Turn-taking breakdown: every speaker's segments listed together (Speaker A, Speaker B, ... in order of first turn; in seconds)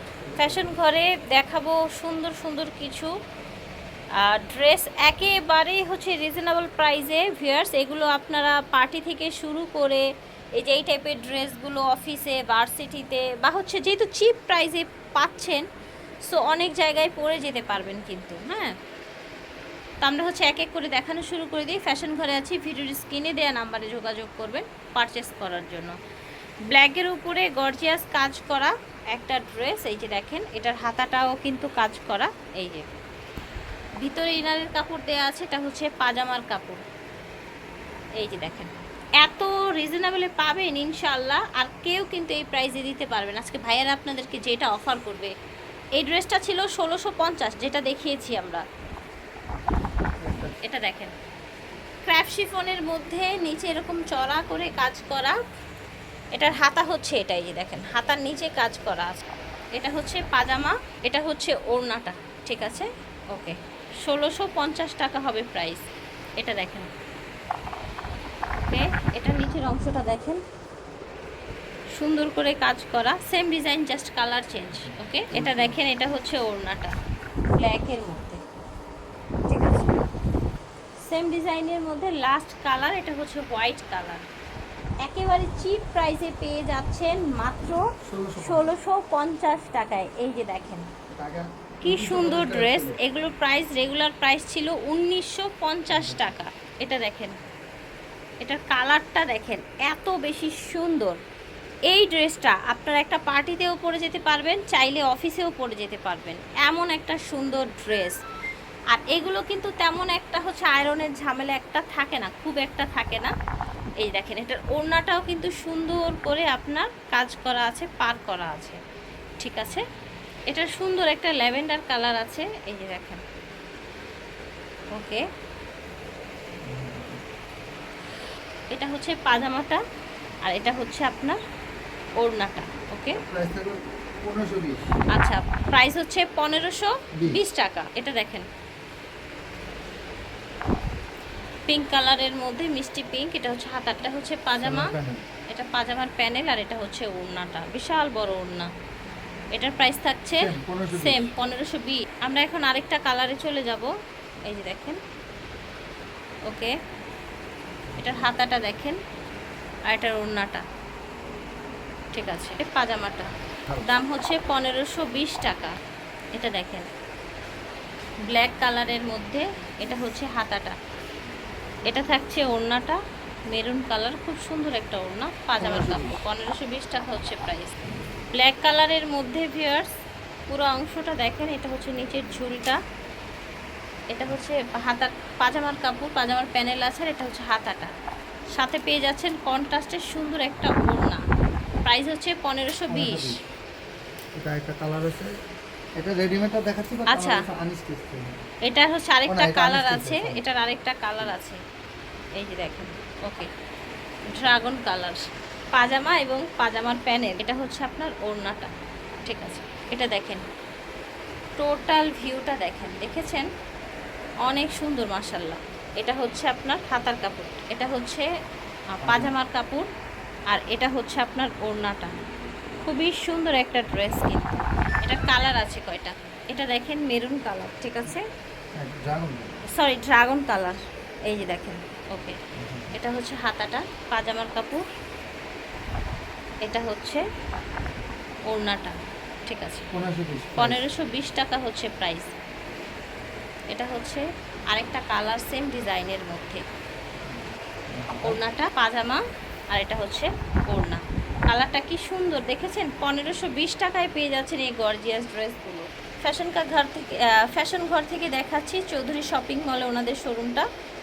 Speaker A: 0.2-0.8, 50.2-50.6, 74.7-75.8, 88.1-88.7, 91.1-93.0, 95.9-96.3, 126.6-127.2, 133.2-134.9, 144.6-145.2, 150.3-151.3, 157.9-158.2, 175.6-176.2, 192.9-193.4, 194.4-195.3, 196.0-198.4, 199.3-200.4, 219.0-219.3, 228.8-229.6, 232.6-232.9, 239.9-240.8, 247.2-248.4
Speaker B: 0.4-3.1, 4.2-10.1, 10.6-15.6, 16.3-18.7, 20.0-25.9, 26.7-32.8, 34.0-36.8, 38.2-45.3, 46.0-48.6, 50.6-51.1, 52.1-55.4, 56.3-59.2, 59.8-65.9, 66.4-66.9, 68.6-70.4, 72.0-76.9, 77.6-78.4, 79.5-79.9, 81.1-84.2, 85.0-87.8, 88.4-90.9, 91.8-97.4, 98.4-101.2, 101.9-108.2, 108.9-113.3, 114.0-118.8, 119.4-119.8, 120.5-123.2, 124.9-125.2, 128.7-129.8, 130.4-131.4, 132.2-133.2, 135.1-138.5, 141.7-144.9, 145.5-148.7, 149.5-153.9, 154.5-155.0, 156.5-156.7, 158.0-159.0, 159.9-160.7, 162.1-163.3, 163.8-165.8, 166.3-166.9, 168.3-170.8, 171.9-173.0, 173.5-177.8, 178.3-179.9, 180.5-182.8, 184.1-187.9, 188.6-191.2, 191.8-193.4, 197.1-197.4, 198.7-201.6, 202.4-203.5, 204.4-205.2, 205.7-208.7, 209.3-210.4, 211.6-213.5, 214.5-218.3, 218.9-219.9, 220.5-222.2, 222.8-228.2, 229.7-232.4, 232.9-234.8, 236.7-237.2, 238.5-239.0, 239.5-239.9, 240.6-242.3, 243.7-246.6, 248.2-249.2, 249.7-260.7